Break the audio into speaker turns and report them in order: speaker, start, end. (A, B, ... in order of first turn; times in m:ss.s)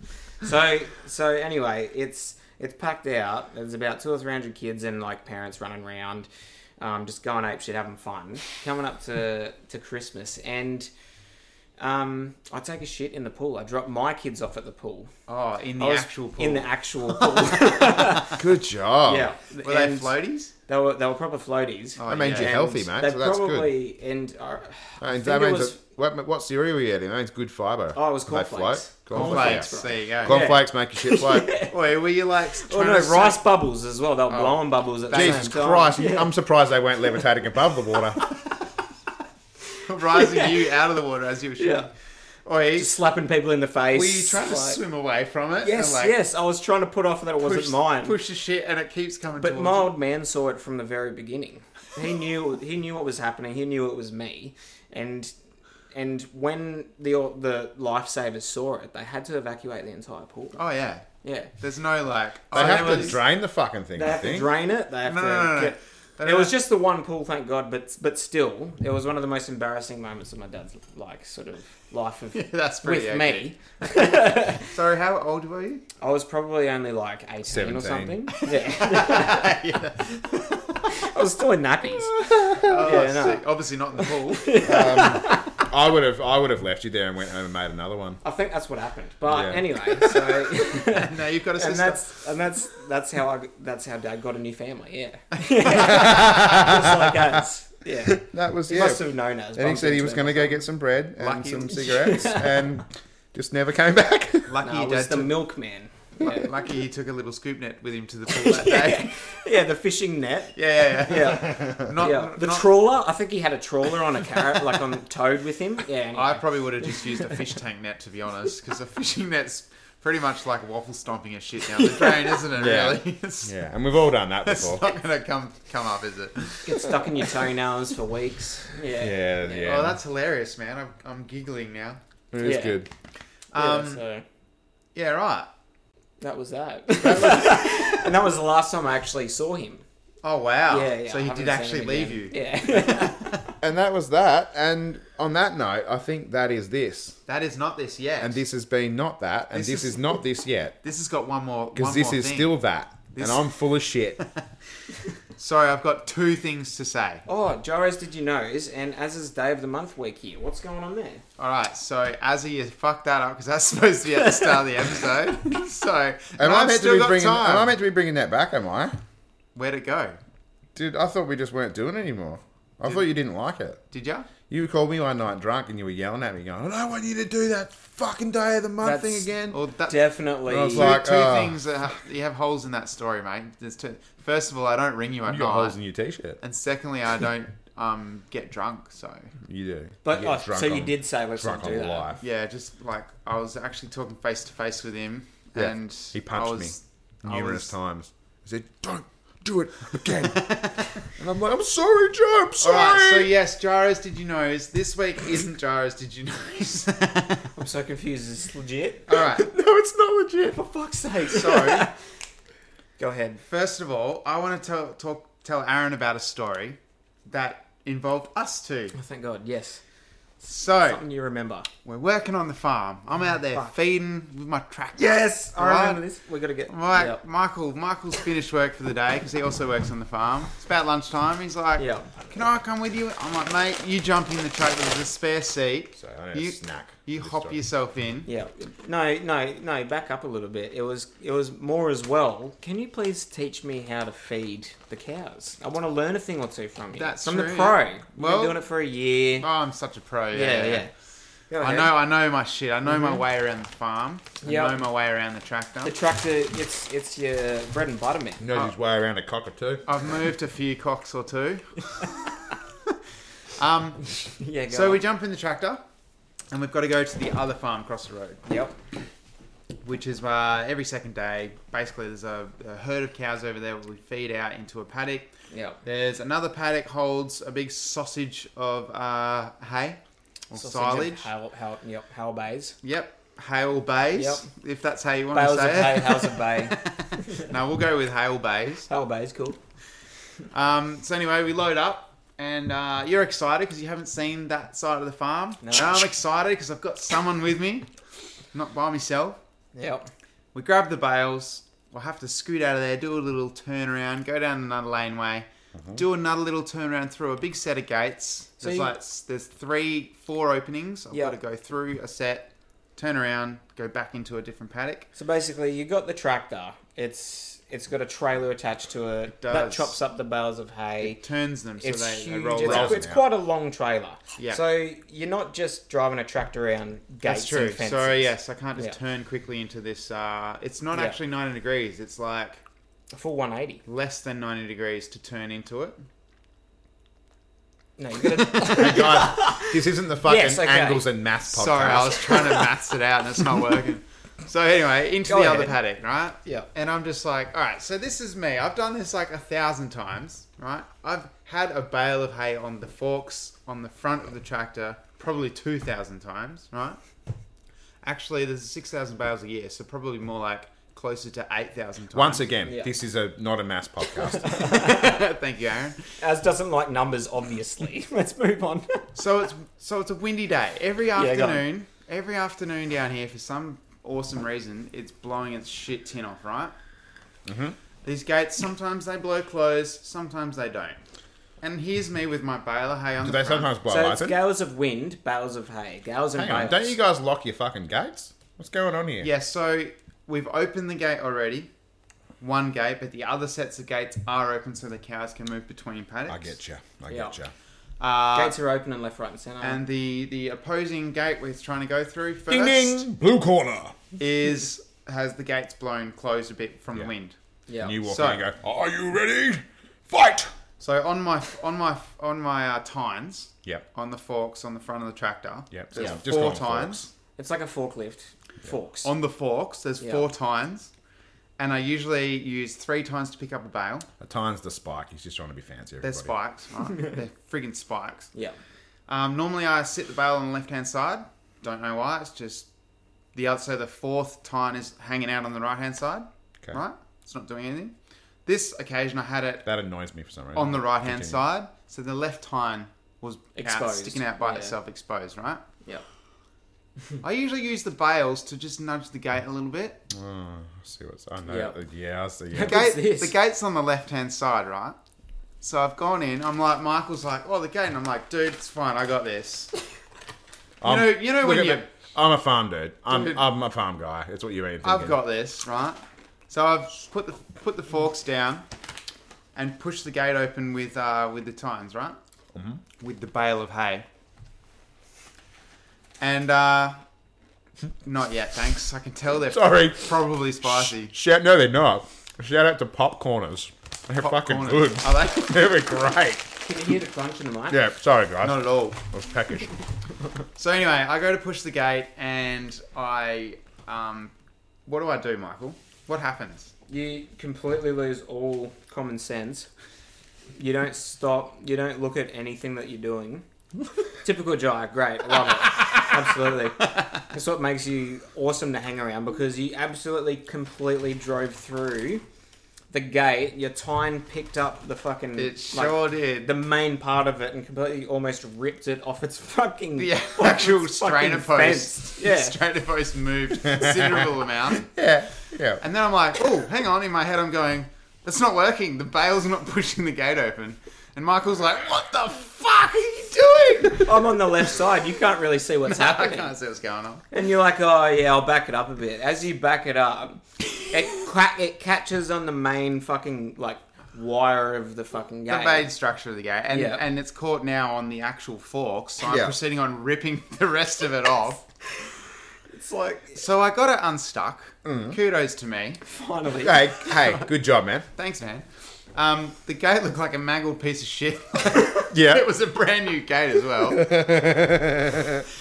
0:00.4-0:06.3 A
0:06.8-0:10.9 A
0:11.8-0:15.1 A
0:15.3-0:18.0 B
0:15.8-0:18.3 A
0:18.4-0:19.3 C
0:19.0-0:20.2 A
0:19.6-0:20.5 B
0:20.7-0:25.8 A
0:22.0-0:22.6 B
0:22.1-0:23.7 C
0:25.0-0:31.5 C
0:27.9-0:31.7 A
0:29.1-0:30.4 B
0:31.6-0:33.4 B
0:32.6-0:36.3 A
0:34.3-0:35.5 B
0:35.1-0:38.2 C
0:39.8-0:41.9 B
0:40.1-0:40.6 A
0:41.6-0:41.9 A
0:42.4-0:42.9 B
0:42.8-0:44.8 A
0:43.9-0:46.2 B
0:45.6-0:48.2 A
0:47.4-0:49.9 B
0:49.4-0:55.3 A
0:55.9-1:00.6 A
1:00.6-1:03.2 B
1:01.2-1:01.5 A
1:02.5-1:03.2 A
1:02.5-1:04.5 C
1:03.9-1:14.7 A
1:05.0-1:06.6 B
1:12.3-1:15.8 B
1:16.0-1:19.5 A
1:17.5-1:18.2 C
1:18.4-1:21.0 B
1:20.9-1:23.4 A
1:22.5-1:24.8 B
1:24.0-1:25.6 A
1:24.6-1:28.2 C
1:28.2-1:40.6 A
1:29.3-1:30.3 C
1:30.6-1:32.2 B
1:35.5-1:35.9 B
1:35.7-1:37.3 C
1:38.0-1:44.5 C
1:41.2-1:42.4 B
1:41.8-1:42.5 A
1:44.5-1:45.4 B
1:44.6-1:46.5 A
1:46.2-1:49.1 B
1:48.3-1:57.1 A
1:50.5-1:52.7 B
1:56.1-2:03.5 B
2:01.7-2:02.4 A
2:02.5-2:05.0 C
2:04.4-2:07.2 B
2:06.6-2:09.7 A
2:09.0-2:10.0 C
2:09.6-2:12.0 B
2:12.3-2:12.9 C
2:12.4-2:12.8 A
2:13.5-2:14.0 B
2:13.5-2:14.2 A
2:14.9-2:15.5 B
2:16.2-2:19.8 A
2:17.0-2:17.8 C
2:20.2-2:23.5 B
2:20.7-2:23.3 A
2:23.6-2:27.2 C
2:27.3-2:28.4 B
2:28.2-2:30.7 C
2:29.5-2:30.2 B
2:30.8-2:33.5 B
2:31.7-2:34.2 C
2:35.2-2:37.2 B
2:37.3-2:41.2 A
2:41.4-2:47.7 B
2:46.4-2:49.0 C
2:49.5-2:50.2 B
2:50.7-2:53.8 C
2:53.9-2:54.3 B
2:54.5-2:59.6 C
2:58.8-2:59.3 A
2:59.5-3:00.1 B
2:59.8-3:00.9 A
3:00.5-3:01.6 C
3:00.7-3:05.8 B
3:05.3-3:06.4 C
3:06.4-3:09.3 B
3:09.4-3:12.2 C
3:10.0-3:12.1 A
3:12.2-3:17.7 B
3:15.6-3:20.4 C
3:20.3-3:21.0 B
3:21.1-3:23.3 C
3:22.6-3:27.5 B
3:27.6-3:29.1 A
3:29.1-3:29.5 B
3:29.1-3:30.6 C
3:30.5-3:31.9 A
3:31.2-3:31.9 B
3:33.0-3:33.4 A
3:33.5-3:39.0 B
3:38.9-3:39.8 A
3:40.4-3:41.0 B
3:40.7-3:41.7 A
3:41.8-3:46.0 B
3:45.0-3:47.2 A
3:46.7-3:58.3 B
3:51.8-3:52.1 A
3:56.0-3:57.6 C
3:58.2-4:09.5 A
4:06.9-4:08.6 B
4:09.4-4:10.9 B
4:10.3-4:10.9 A
4:11.5-4:11.9 A
4:11.6-4:15.9 B
4:12.9-4:13.2 A
4:14.4-4:14.8 A
4:15.8-4:18.4 A
4:18.4-4:19.9 C
4:19.8-4:21.6 B
4:23.6-4:24.0 B
4:24.2-4:25.0 A
4:24.7-4:25.8 B
4:26.5-4:28.4 B
4:28.4-4:28.7 A
4:29.8-4:35.3 B
4:35.5-4:35.8 A
4:35.8-4:41.3 B
4:40.5-4:42.7 A
4:42.8-4:48.9 B
4:44.1-4:44.5 A
4:45.3-4:47.4 A
4:48.9-4:49.6 A
4:50.5-4:57.9 B
4:55.6-4:56.0 A
4:58.5-4:59.4 B
4:59.7-5:00.1 A
5:00.5-5:15.1 B
5:08.6-5:08.9 A
5:15.1-5:21.2 A
5:19.4-5:20.0 B
5:21.0-5:23.1 B
5:21.8-5:29.0 A
5:22.6-5:23.2 C
5:24.4-5:24.6 B
5:27.2-5:32.6 B
5:33.1-5:33.8 A
5:33.8-5:36.0 B
5:38.0-5:41.0 A
5:38.5-5:42.4 C
5:41.5-5:57.0 B
5:45.3-5:45.8 A
5:58.0-6:02.5 B
6:02.1-6:04.6 C
6:02.6-6:02.9 A
6:04.3-6:05.2 A
6:04.5-6:06.0 B
6:06.2-6:09.1 A
6:09.1-6:16.7 B
6:11.2-6:11.6 A
6:17.4-6:17.8 C
6:18.0-6:21.0 B
6:21.6-6:23.7 B
6:23.2-6:24.4 C
6:23.8-6:27.0 A
6:26.3-6:29.3 C
6:29.2-6:31.7 B
6:32.4-6:36.5 B
6:36.3-6:37.5 C
6:37.1-6:37.3 A
6:38.0-6:38.6 B
6:38.3-6:39.8 A
6:39.6-6:43.1 B
6:42.5-6:44.0 C
6:44.2-6:47.4 B
6:47.7-6:48.0 A
6:47.8-6:50.5 C
6:48.0-6:48.4 B
6:50.8-6:57.0 B
6:55.7-6:57.1 C
6:55.9-6:56.2 A
6:57.4-6:59.1 A
6:59.0-7:00.9 B
7:00.0-7:00.2 A
7:01.6-7:04.1 B
7:04.2-7:06.3 C
7:06.0-7:08.3 B
7:09.1-7:12.7 B
7:13.3-7:17.9 B
7:18.4-7:19.6 B
7:19.6-7:21.4 C
7:20.5-7:25.6 B
7:23.6-7:24.7 A
7:27.2-7:30.0 B
7:30.1-7:32.8 C
7:31.4-7:31.8 A
7:32.5-7:33.3 A
7:32.6-7:35.0 B
7:35.6-7:39.7 B
7:40.8-7:45.2 C
7:40.8-7:41.9 B
7:44.8-7:48.6 B
7:49.5-7:52.2 B
7:52.5-7:52.8 C
7:53.0-7:54.0 B
7:56.2-7:57.0 B
7:58.0-8:01.1 B
7:59.5-8:06.5 C
8:04.2-8:05.7 B
8:06.6-8:07.8 A
8:07.7-8:09.7 C
8:08.4-8:09.0 B
8:10.6-8:14.3 B
8:14.8-8:16.7 B
8:16.9-8:19.7 A
8:20.6-8:23.4 A
8:24.2-8:32.2 A
8:32.9-8:42.6 A
8:35.4-8:36.5 B
8:40.0-8:44.9 B
8:43.7-8:44.2 C
8:44.9-8:45.8 C
8:45.8-8:54.3 B
8:54.0-8:56.5 A
8:55.8-8:57.3 B
8:57.3-9:05.9 A
9:05.5-9:11.6 B
9:06.7-9:07.0 A
9:09.2-9:09.5 C
9:12.7-9:13.4 A
9:13.4-9:16.0 B
9:14.8-9:15.2 C
9:16.1-9:17.4 A
9:16.6-9:18.1 C
9:18.2-9:24.1 B
9:22.1-9:22.4 C
9:23.9-9:25.4 C